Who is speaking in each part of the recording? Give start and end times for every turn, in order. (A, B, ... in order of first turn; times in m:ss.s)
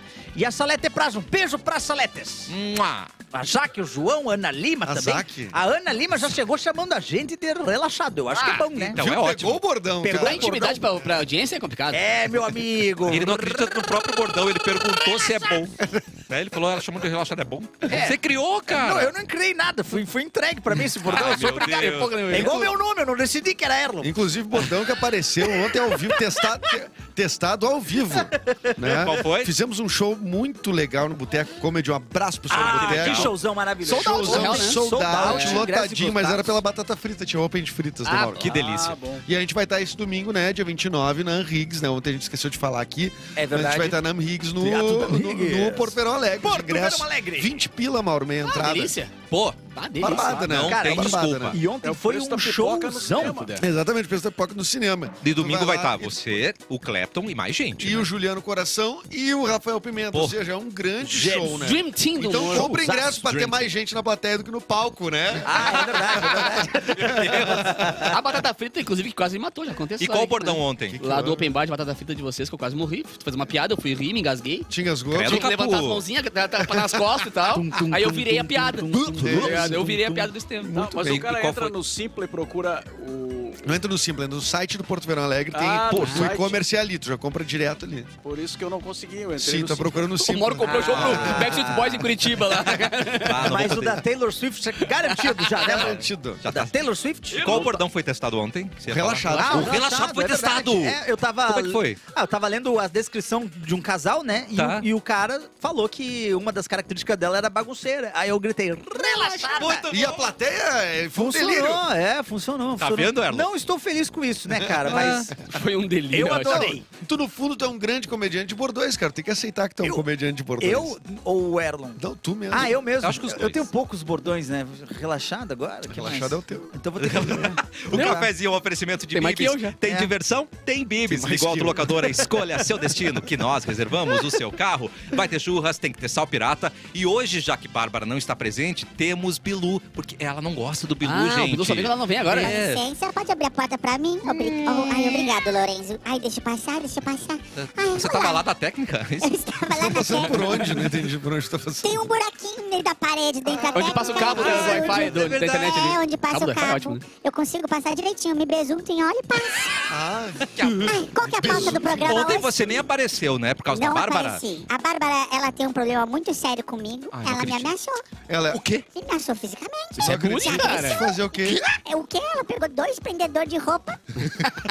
0:00.3-0:02.5 A
0:02.5-0:03.1 B
0:03.3-0:09.0 A
0:04.8-0:05.6 C
0:08.3-0:08.7 D
0:08.7-0:09.6 B
0:08.9-0:10.5 C
0:10.0-0:10.8 A
0:10.2-0:12.0 D
0:11.9-0:13.9 A
0:13.0-0:15.7 B
0:14.7-0:15.5 A
0:16.3-0:19.1 B
0:17.9-0:18.2 D
0:18.7-0:21.7 A
0:21.0-0:22.6 B
0:21.0-0:22.6 D
0:22.3-0:26.4 A
0:24.0-0:38.5 C
0:28.1-0:29.1 A
0:28.9-0:29.5 B
0:32.5-0:35.7 A
0:32.5-0:33.4 B
0:33.8-0:36.6 D
0:38.0-0:38.6 D
0:38.4-0:39.0 B
0:38.4-0:39.2 E
0:39.2-0:48.9 C
0:43.4-0:44.0 A
0:44.6-0:47.6 A
0:48.4-0:50.5 D
0:49.3-0:49.6 B
0:50.0-0:51.6 C
0:50.2-0:53.5 A
0:50.4-0:51.6 B
0:51.8-0:53.6 E
0:53.6-0:56.5 C
0:55.2-0:58.1 B
0:57.8-1:07.9 C
1:00.1-1:00.4 B
1:01.0-1:01.5 A
1:01.2-1:02.8 D
1:02.2-1:03.5 A
1:05.4-1:08.1 A
1:06.9-1:08.1 B
1:08.1-1:20.8 D
1:10.0-1:11.0 B
1:10.9-1:11.5 C
1:14.7-1:15.5 C
1:15.1-1:16.0 B
1:17.5-1:20.2 A
1:19.2-1:20.0 C
1:20.6-1:21.2 C
1:20.7-1:23.6 E
1:20.9-1:21.7 B
1:23.6-1:28.1 C
1:25.5-1:26.6 E
1:25.9-1:26.2 D
1:28.2-1:30.1 E
1:29.4-1:31.7 C
1:30.2-1:33.4 D
1:30.6-1:32.1 A
1:30.9-1:31.5 B
1:33.1-1:34.0 B
1:33.4-1:37.6 A
1:33.5-1:34.0 C
1:35.1-1:35.4 D
1:35.6-1:36.4 C
1:36.4-1:36.7 B
1:37.3-1:42.0 B
1:37.3-1:37.8 E
1:38.9-1:39.8 C
1:39.3-1:39.6 D
1:39.3-1:49.9 A
1:44.5-1:44.8 B
1:48.9-1:49.8 D
1:49.6-1:50.2 B
1:49.8-1:51.8 C
1:51.1-1:55.4 A
1:52.8-1:53.5 B
1:54.5-1:55.1 C
1:54.9-1:55.3 B
1:55.4-1:56.7 D
1:56.1-1:56.8 A
1:56.4-2:01.0 C
2:00.6-2:08.3 A
2:02.0-2:02.8 C
2:03.0-2:03.7 B
2:05.9-2:07.5 C
2:07.0-2:22.8 B
2:09.1-2:09.8 D
2:09.8-2:10.1 A
2:11.1-2:12.3 C
2:21.0-2:22.5 D
2:22.3-2:28.4 F
2:24.6-2:25.1 D
2:27.6-2:29.4 B
2:29.2-2:30.9 F
2:29.7-2:32.1 C
2:31.8-2:39.9 F
2:33.7-2:37.0 D
2:34.1-2:35.9 B
2:39.9-2:42.2 C
2:40.4-2:44.4 B
2:40.8-2:42.8 F
2:43.7-2:48.0 F
2:47.1-2:47.7 B
2:48.3-2:48.6 C
2:48.5-2:48.8 B
2:48.9-2:54.0 F
2:50.0-2:51.0 D
2:50.0-2:51.6 C